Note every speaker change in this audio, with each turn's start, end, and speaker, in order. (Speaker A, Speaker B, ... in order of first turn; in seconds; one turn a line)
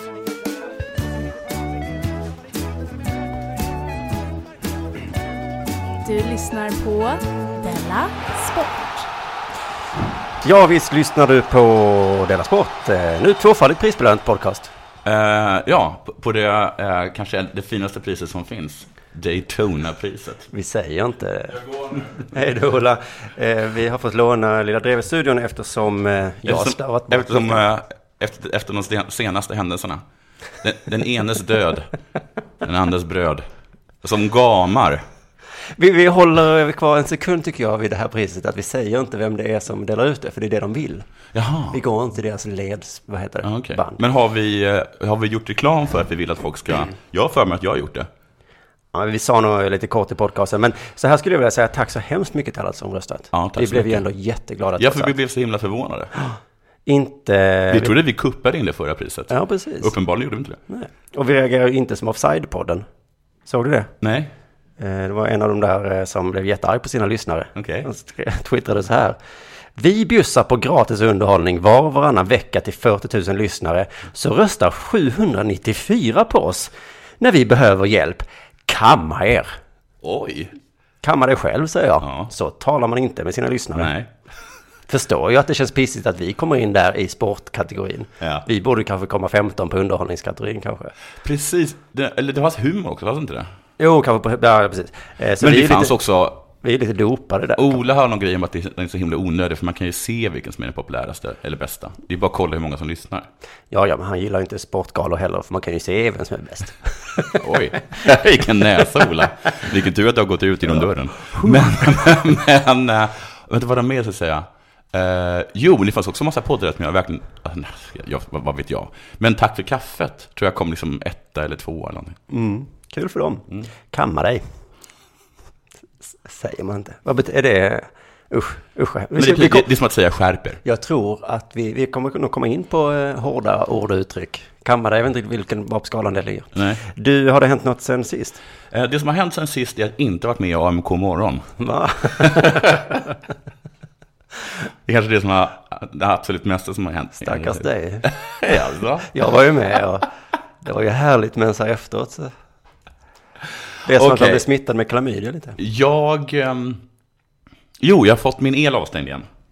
Speaker A: 6.0-9.1
Speaker B: 10.4-14.7
Speaker C: 15.1-20.5
Speaker B: 20.5-27.6
Speaker C: 26.5-30.0
Speaker C: 30.6-31.9
Speaker C: 32.6-33.4
Speaker C: 34.0-35.0
Speaker B: 35.8-41.1
Speaker C: 41.3-41.8
Speaker B: 41.7-44.0
Speaker C: 43.4-48.1
Speaker B: 48.9-55.1
Speaker C: 53.3-54.0
Speaker C: 54.8-56.1
Speaker B: 56.2-58.0
Speaker C: 57.7-60.6
Speaker B: 59.3-59.9
Speaker B: 60.7-62.9
Speaker B: 63.5-63.9
Speaker C: 64.0-64.3
Speaker B: 64.8-69.2
Speaker C: 67.5-67.9
Speaker B: 69.8-79.5
Speaker C: 80.0-80.5
Speaker B: 81.0-83.9
Speaker C: 82.0-82.3
Speaker C: 83.7-84.1
Speaker B: 84.9-90.9
Speaker C: 91.2-93.5
Speaker B: 93.8-96.0
Speaker C: 95.4-96.5
Speaker B: 96.6-97.7
Speaker C: 97.6-103.3
Speaker B: 103.7-107.4
Speaker C: 107.4-122.2
Speaker B: 122.3-124.4
Speaker B: 126.1-129.7
Speaker C: 129.2-130.6
Speaker B: 130.6-138.4
Speaker C: 136.6-136.8
Speaker C: 138.7-141.5
Speaker B: 141.6-143.0
Speaker C: 142.1-142.8
Speaker C: 144.8-149.1
Speaker B: 147.2-148.1
Speaker B: 149.0-150.1
Speaker B: 150.6-152.3
Speaker B: 153.8-155.6
Speaker C: 153.9-154.5
Speaker C: 155.6-156.8
Speaker C: 157.8-159.3